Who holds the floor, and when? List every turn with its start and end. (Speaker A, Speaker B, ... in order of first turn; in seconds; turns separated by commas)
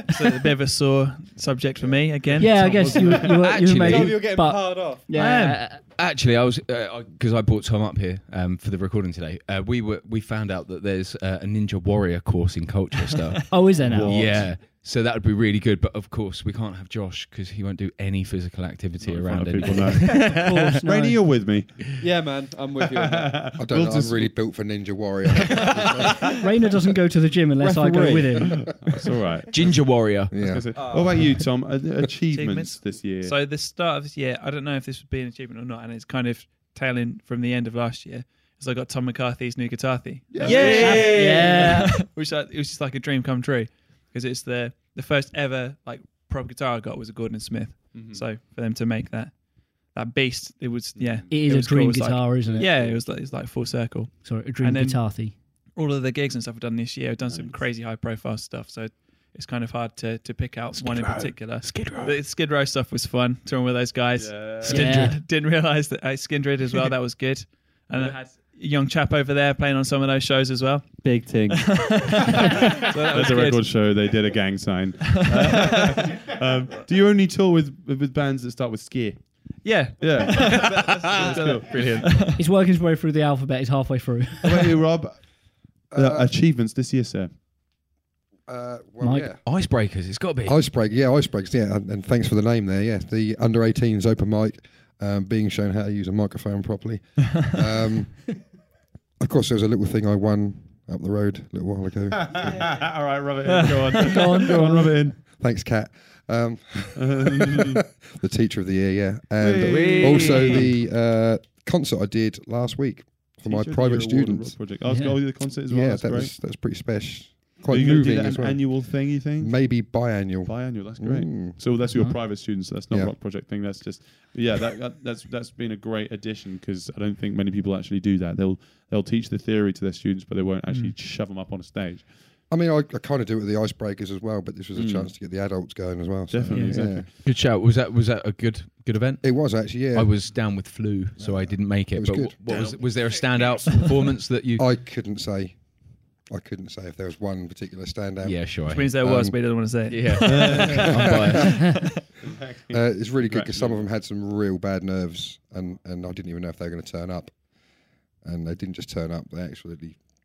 Speaker A: 0.1-3.2, Speaker B: 1.8-3.3, Speaker C: 2.4-5.8, Speaker D: 3.1-5.1, Speaker E: 3.3-4.3, Speaker A: 5.1-5.6, Speaker E: 6.0-20.4, Speaker C: 13.5-14.4, Speaker B: 13.8-14.5, Speaker B: 19.0-21.9, Speaker C: 20.1-21.2, Speaker D: 22.0-23.5, Speaker B: 22.8-24.3, Speaker F: 23.6-26.1, Speaker C: 26.4-28.6, Speaker D: 27.6-28.6, Speaker B: 28.5-33.3, Speaker E: 29.5-30.3, Speaker F: 30.3-31.3, Speaker D: 30.8-31.1, Speaker A: 32.3-55.1, Speaker B: 40.3-41.1, Speaker D: 40.4-41.7, Speaker C: 40.8-42.0, Speaker B: 47.9-48.2, Speaker B: 51.0-51.3, Speaker C: 51.3-52.7, Speaker B: 52.4-53.0, Speaker C: 54.2-55.3, Speaker A: 55.8-73.9, Speaker B: 57.3-57.5, Speaker E: 60.7-62.1, Speaker B: 64.2-64.8, Speaker C: 64.6-65.2, Speaker E: 64.8-65.1, Speaker D: 71.0-71.7, Speaker B: 73.1-79.3, Speaker A: 75.3-76.1, Speaker A: 79.6-82.4, Speaker B: 80.0-82.1, Speaker C: 82.4-84.8, Speaker B: 84.4-85.2, Speaker F: 85.9-86.3, Speaker B: 85.9-87.3, Speaker F: 88.5-89.4, Speaker C: 89.0-89.3, Speaker E: 89.4-90.6, Speaker F: 90.4-98.4, Speaker F: 99.2-102.7, Speaker B: 102.2-105.2, Speaker C: 104.1-104.9, Speaker F: 105.2-114.7, Speaker B: 107.0-107.8, Speaker B: 109.4-110.7, Speaker E: 109.6-110.7, Speaker B: 113.4-116.3, Speaker C: 114.8-115.2, Speaker F: 115.6-121.6, Speaker B: 117.7-119.8, Speaker B: 120.4-132.1, Speaker A: 130.7-130.9, Speaker F: 132.5-137.1, Speaker B: 134.7-135.1, Speaker B: 136.3-137.1, Speaker A: 136.5-136.8, Speaker E: 137.2-144.7, Speaker F: 139.2-140.3, Speaker F: 141.2-142.7, Speaker B: 142.5-143.8, Speaker F: 144.6-145.6, Speaker F: 146.3-149.3, Speaker E: 148.2-149.0, Speaker A: 148.7-152.0, Speaker E: 149.9-151.8, Speaker B: 150.2-151.2, Speaker F: 150.7-151.3, Speaker B: 152.2-153.8, Speaker F: 152.7-157.3, Speaker F: 158.2-160.0